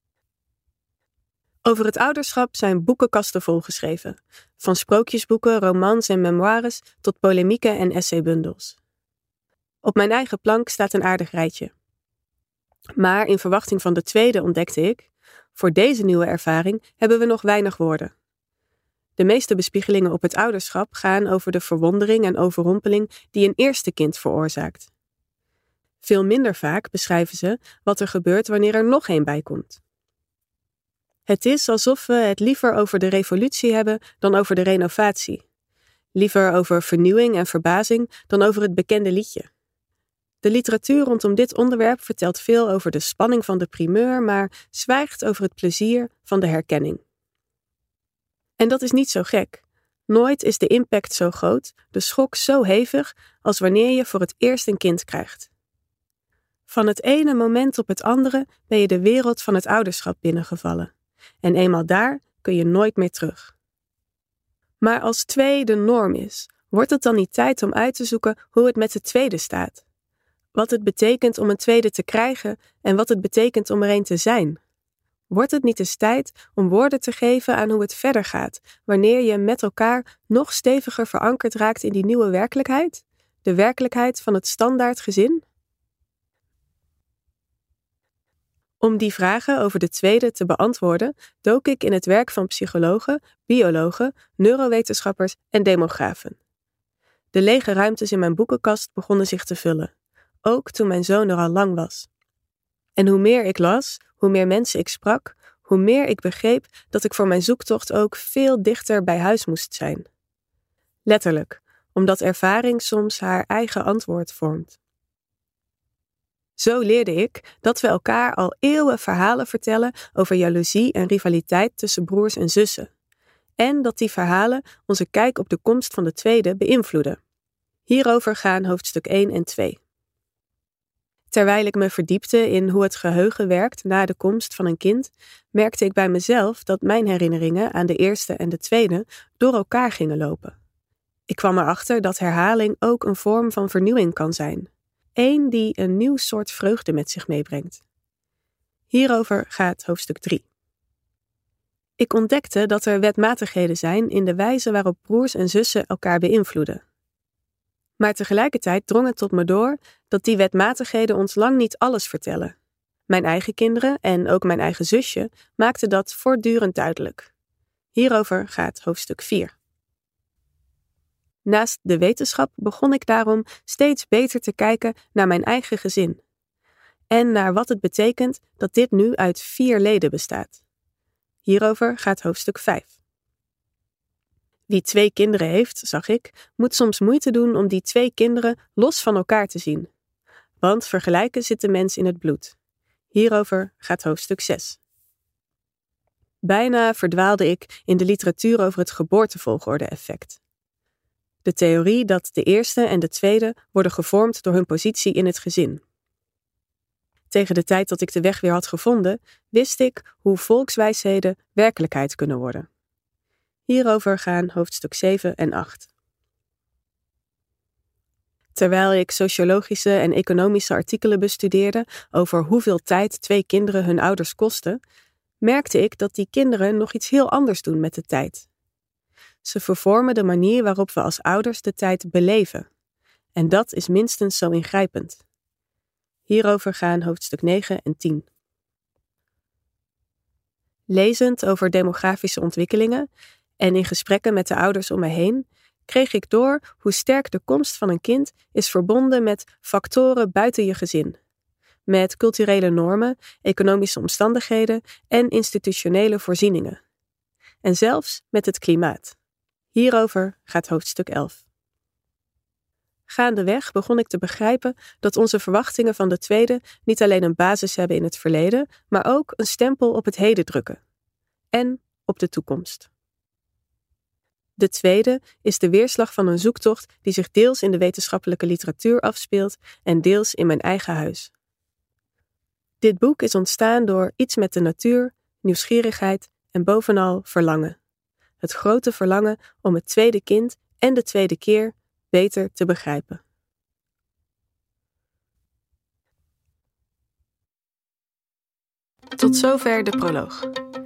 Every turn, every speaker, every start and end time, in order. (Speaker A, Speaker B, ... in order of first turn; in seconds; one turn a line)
Speaker A: 1.6-8.8
Speaker A: 9.8-11.7
Speaker A: 13.0-18.1
Speaker A: 19.2-24.9
Speaker A: 26.0-29.8
Speaker A: 31.3-35.4
Speaker A: 36.1-39.5
Speaker A: 40.4-47.0
Speaker A: 48.6-55.5
Speaker A: 56.7-60.9
Speaker A: 61.4-63.5
Speaker A: 64.8-69.8
Speaker A: 70.5-74.6
Speaker A: 75.3-85.4
Speaker A: 88.8-96.4
Speaker A: 97.3-99.9
Speaker A: 100.5-102.1
Speaker A: 103.0-110.1
Speaker A: 111.1-114.8
Speaker A: 116.6-122.9
Speaker A: 123.6-127.2
Speaker A: 127.9-129.8
Speaker A: 131.3-140.6
Speaker A: 141.3-147.8
Speaker A: 148.9-150.4
Speaker A: 152.0-156.8
Speaker A: 158.0-162.5
Speaker A: 163.1-167.3
Speaker A: 167.9-169.5
Speaker A: 171.4-176.2
Speaker A: 177.1-180.6
Speaker A: 181.4-183.0
Speaker A: 184.7-189.9
Speaker A: 190.6-192.6
Speaker A: 193.1-194.8
Speaker A: 196.4-200.4
Speaker A: 201.4-205.8
Speaker A: 207.3-212.7
Speaker A: 213.7-215.9
Speaker A: 218.6-224.8
Speaker A: 225.4-228.5
Speaker A: 229.4-232.7
Speaker A: 233.4-235.2
Speaker A: 236.3-238.3
Speaker A: 240.9-243.1
Speaker A: 243.6-251.2
Speaker A: 251.9-256.8
Speaker A: 257.6-259.2
Speaker A: 259.7-261.4
Speaker A: 263.1-270.8
Speaker A: 271.5-272.9
Speaker A: 274.6-281.3
Speaker A: 282.8-287.8
Speaker A: 288.4-293.2
Speaker A: 299.2-300.5